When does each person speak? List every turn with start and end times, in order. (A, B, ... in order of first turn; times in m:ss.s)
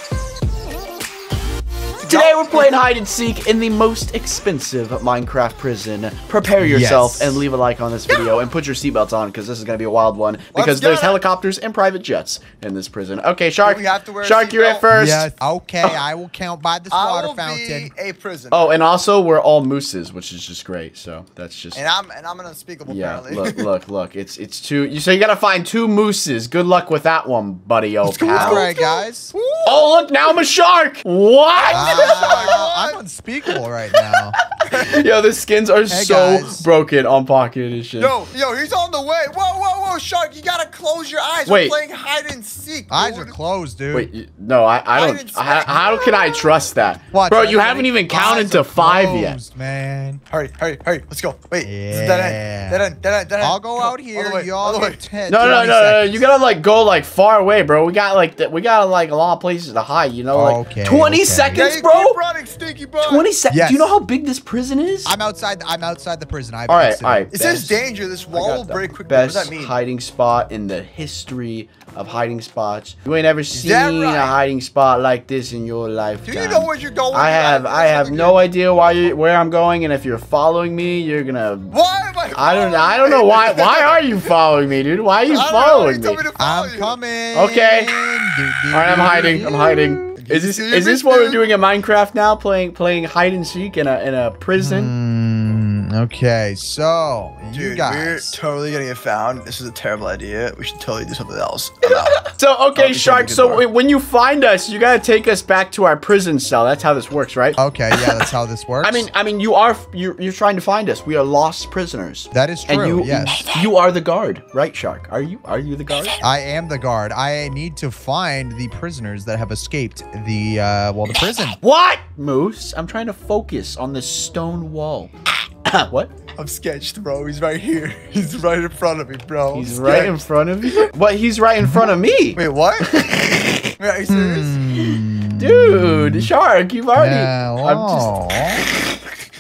0:02.0-0:16.0 A
0:02.0-0:02.8 B
0:06.6-0:07.4 C
0:10.5-0:11.2 B
0:13.6-0:14.9 B
0:14.9-0:17.9 C
0:16.9-0:18.8 B
0:18.5-0:21.8 A
0:21.7-0:23.7 B
0:22.9-0:28.7 A
0:28.0-0:29.9 B
0:28.3-0:29.3 C
0:29.7-0:32.7 A
0:31.5-0:33.0 B
0:31.7-0:34.4 C
0:34.7-0:35.0 B
0:34.9-0:38.2 A
0:35.9-0:36.7 C
0:38.0-0:43.3 B
0:41.5-0:41.8 A
0:42.9-0:44.1 C
0:43.9-0:49.4 A
0:44.9-0:46.6 B
0:47.1-0:50.2 C
0:50.3-0:55.0 B
0:51.6-0:52.9 C
0:53.4-0:56.2 C
0:55.3-1:02.2 A
1:00.3-1:01.7 C
1:01.5-1:03.3 B
1:03.0-1:05.2 A
1:03.5-1:03.9 C
1:05.0-1:07.3 C
1:06.7-1:07.8 A
1:07.3-1:09.8 B
1:08.3-1:21.8 A
1:13.5-1:14.4 B
1:16.3-1:18.5 B
1:21.7-1:24.3 B
1:22.3-1:26.2 A
1:25.3-1:27.0 B
1:26.4-1:29.9 C
1:27.3-1:28.0 A
1:28.7-1:34.9 A
1:30.0-1:31.4 B
1:34.6-1:38.4 C
1:37.5-1:43.6 B
1:41.8-1:48.3 A
1:47.6-1:49.1 C
1:48.8-1:56.2 A
1:52.3-1:53.5 C
1:56.2-2:01.6 C
2:01.6-2:05.1 A
2:05.6-2:06.2 A
2:06.2-2:10.2 B
2:09.5-2:13.7 A
2:12.3-2:13.0 B
2:13.8-2:14.6 B
2:14.1-2:16.3 C
2:14.7-2:18.2 A
2:17.0-2:18.6 C